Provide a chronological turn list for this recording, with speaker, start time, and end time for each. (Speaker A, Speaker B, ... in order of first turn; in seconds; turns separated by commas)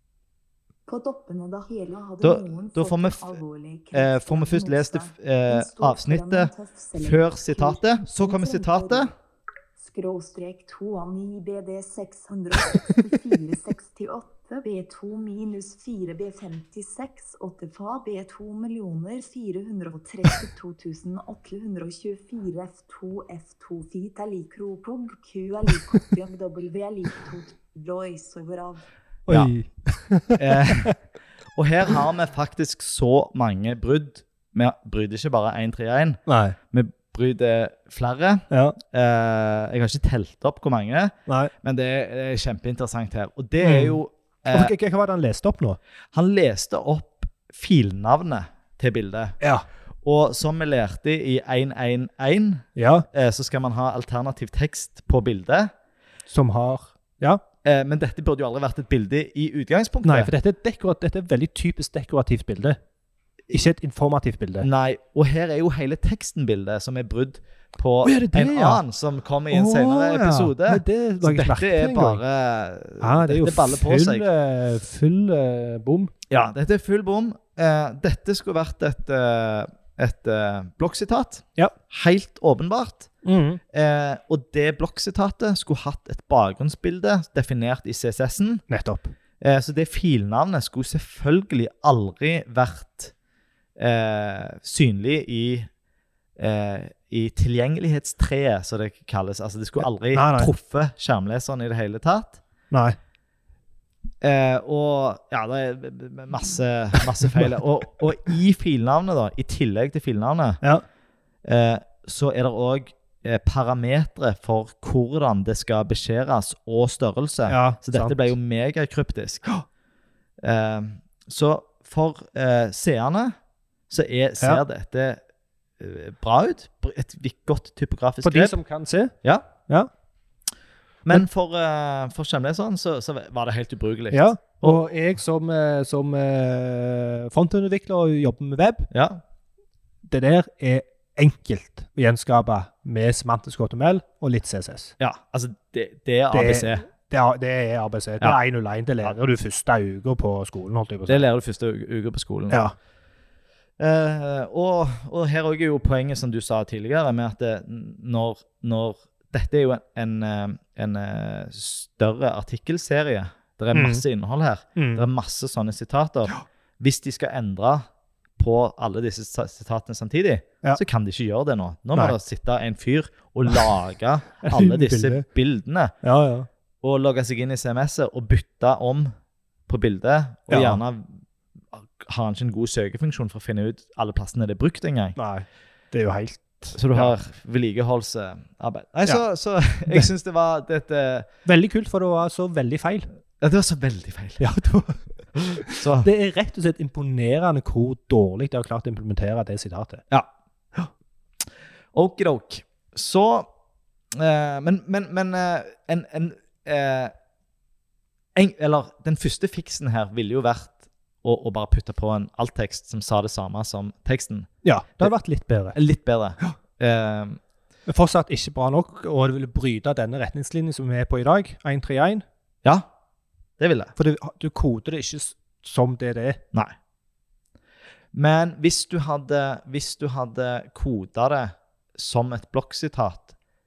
Speaker A: 0.9-9.1, Speaker B: 2.2-3.4, Speaker B: 3.9-9.1, Speaker A: 9.8-28.8, Speaker C: 29.3-30.9, Speaker B: 29.3-29.5, Speaker B: 30.4-30.9, Speaker B: 31.5-44.7, Speaker C: 36.3-36.6, Speaker C: 38.5-38.8, Speaker C: 41.3-41.5, Speaker C: 43.6-44.0, Speaker C: 44.5-45.8, Speaker B: 46.1-49.4, Speaker C: 49.4-49.6, Speaker B: 50.0-55.7, Speaker C: 52.8-53.1, Speaker C: 56.3-57.4, Speaker B: 57.6-60.3, Speaker C: 60.0-62.8, Speaker C: 63.5-64.7, Speaker B: 64.6-74.2, Speaker C: 68.0-68.8, Speaker C: 69.5-72.2, Speaker C: 73.0-76.1, Speaker B: 76.3-83.1, Speaker C: 83.2-83.6, Speaker B: 83.7-88.6, Speaker C: 88.7-89.1, Speaker B: 89.4-93.1, Speaker B: 93.8-95.7, Speaker B: 96.4-102.4, Speaker C: 100.1-100.5, Speaker C: 102.7-103.0, Speaker B: 104.2-110.6, Speaker B: 111.4-119.5, Speaker C: 117.5-118.3, Speaker B: 120.4-123.3, Speaker B: 123.9-125.2, Speaker B: 125.8-128.5, Speaker C: 128.2-129.1, Speaker B: 129.2-129.5, Speaker B: 131.0-134.8, Speaker C: 134.1-138.9, Speaker B: 138.9-139.2, Speaker C: 140.0-144.9, Speaker B: 145.0-146.9, Speaker C: 146.3-151.2, Speaker B: 151.1-152.6, Speaker B: 153.8-167.9, Speaker C: 163.7-164.0, Speaker C: 164.8-165.1, Speaker B: 168.4-175.9, Speaker C: 174.4-175.2, Speaker C: 176.0-176.5, Speaker B: 176.8-179.1, Speaker B: 179.7-181.2, Speaker C: 180.5-180.8, Speaker B: 181.7-185.2, Speaker C: 185.2-187.1, Speaker B: 186.7-191.3, Speaker C: 191.4-193.1, Speaker B: 193.4-194.4, Speaker C: 194.4-200.0, Speaker B: 195.6-196.1, Speaker B: 201.9-203.5, Speaker B: 204.1-207.1, Speaker B: 208.3-214.5, Speaker C: 214.6-215.8, Speaker B: 215.7-217.4, Speaker C: 217.9-222.2, Speaker B: 223.6-223.9, Speaker C: 223.9-226.4, Speaker B: 228.1-233.3